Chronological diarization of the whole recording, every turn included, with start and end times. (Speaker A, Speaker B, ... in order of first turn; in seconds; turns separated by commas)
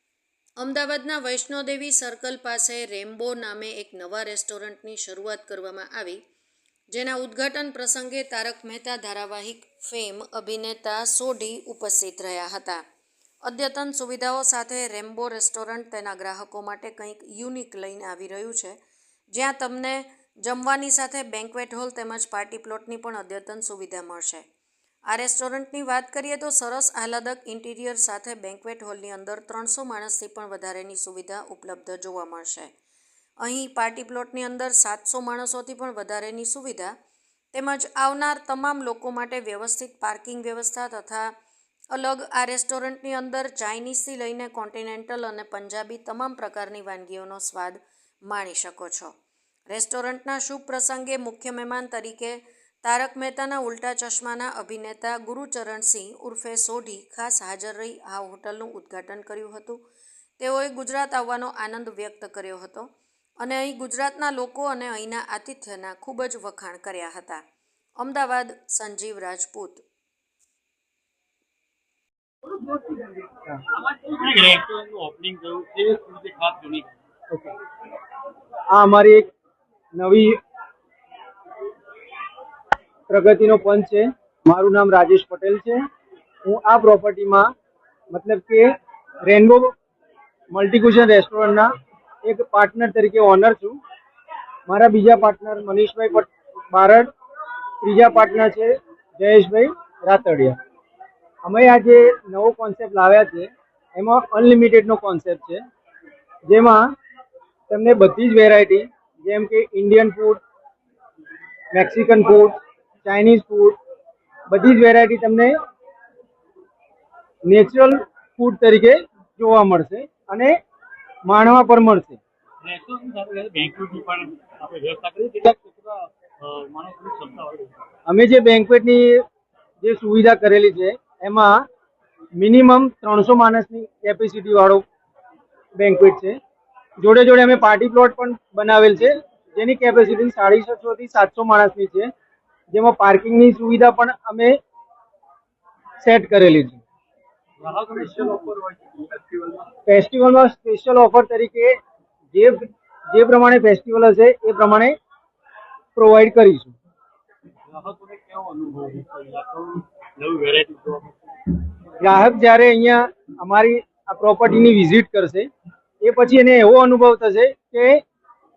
Speaker A: 0.6-6.2, Speaker A: 6.9-12.8, Speaker A: 13.4-18.8, Speaker A: 19.3-24.4, Speaker A: 25.1-32.7, Speaker A: 33.4-36.9, Speaker A: 37.5-41.3, Speaker A: 41.9-49.1, Speaker A: 49.7-59.8, Speaker A: 60.4-67.4, Speaker A: 68.0-69.8, Speaker B: 73.7-76.9, Speaker C: 78.7-79.3, Speaker C: 80.0-80.4, Speaker C: 83.1-85.8, Speaker C: 86.5-87.5, Speaker C: 88.1-88.7, Speaker C: 89.3-89.7, Speaker C: 90.5-91.7, Speaker C: 92.2-93.8, Speaker C: 94.7-97.1, Speaker C: 97.8-100.6, Speaker C: 101.4-105.6, Speaker C: 106.5-106.9, Speaker C: 107.7-110.4, Speaker C: 111.7-113.8, Speaker C: 114.5-115.5, Speaker C: 117.5-120.5, Speaker C: 121.3-122.2, Speaker B: 122.6-127.8, Speaker C: 128.1-129.2, Speaker C: 129.8-131.6, Speaker C: 132.4-134.8, Speaker C: 135.8-136.4, Speaker C: 137.0-142.1, Speaker C: 142.7-144.6, Speaker C: 146.0-146.8, Speaker B: 147.6-149.5, Speaker C: 149.9-151.7, Speaker C: 152.3-152.6, Speaker C: 153.1-154.9, Speaker C: 156.0-156.8, Speaker B: 157.7-161.2, Speaker C: 162.0-165.5, Speaker C: 166.0-168.0